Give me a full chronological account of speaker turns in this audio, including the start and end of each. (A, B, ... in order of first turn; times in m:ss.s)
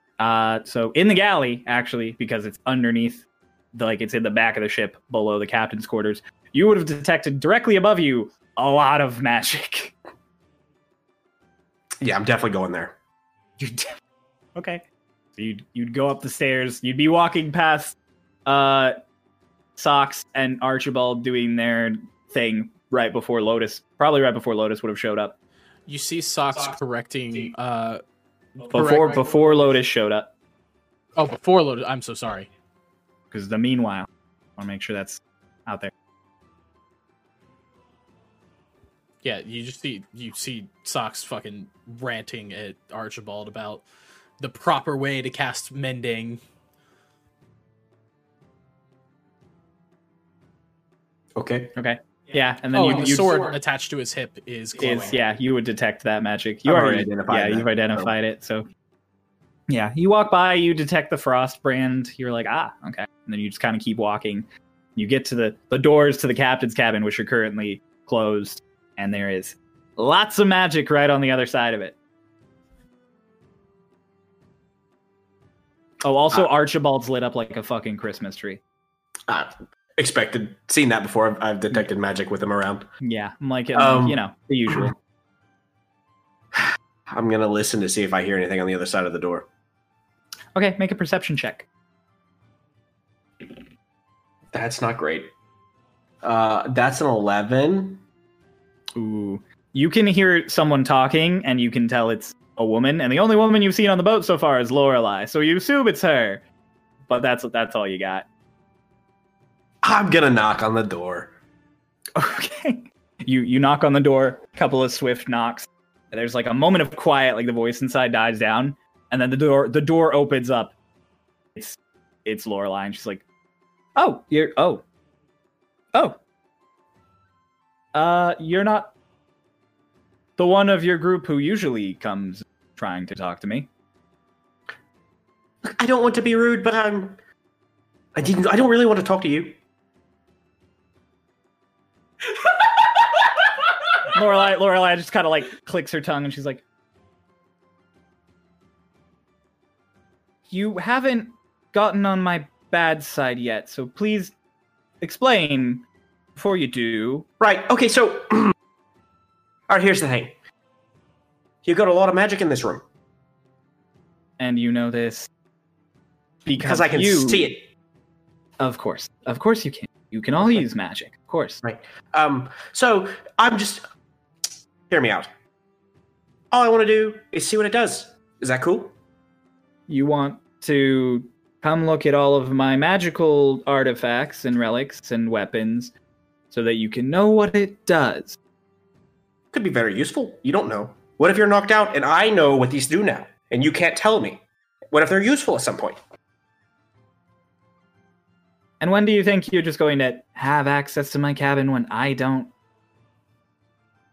0:00.2-0:09.9 A
0:12.0-0:13.0 B
0:13.6-0:14.0 A
0:14.6-0:14.8 A
0:15.4-0:17.9 A
0:18.4-0:19.0 A
0:19.8-0:25.3 A
0:25.9-0:28.0 C
0:28.6-0:29.4 C
0:28.7-0:30.3 A
0:31.2-0:32.5 C
0:33.3-0:35.9 A
0:39.2-0:43.8 C
0:44.4-0:46.4 C
0:51.4-0:51.7 B
0:51.8-0:53.5 A
0:52.7-0:55.2 C
0:54.8-0:58.6 A
0:56.6-0:58.1 B
0:59.7-1:12.0 A
1:16.0-1:18.6 A
1:19.3-1:22.9 B
1:23.0-1:24.9 A
1:23.7-1:24.9 B
1:26.6-1:29.5 B
1:30.5-1:31.6 A
1:34.5-1:35.3 B
1:36.2-1:38.0 B
1:39.0-1:46.4 A
1:47.1-1:48.2 A
1:49.8-1:51.3 B
1:52.2-2:00.7 A
2:01.6-2:03.2 A
2:04.0-2:04.8 A
2:07.9-2:08.9 A
2:10.4-2:13.7 A
2:15.6-2:17.2 B
2:18.1-2:19.6 B
2:24.1-2:26.6 A
2:30.5-2:34.3 A
2:35.0-2:35.8 A
2:36.4-2:37.2 A
2:37.4-2:38.5 B
2:39.7-2:40.4 B
2:41.6-2:42.8 B
2:44.4-2:45.3 A
2:46.4-2:47.5 A
2:46.6-2:47.7 B
2:48.6-2:51.6 A
2:51.6-2:53.8 B
2:54.9-2:55.3 B
2:56.5-2:58.9 B
2:59.9-3:05.9 A
3:06.5-3:08.4 A
3:09.5-3:16.0 B
3:18.8-3:22.5 A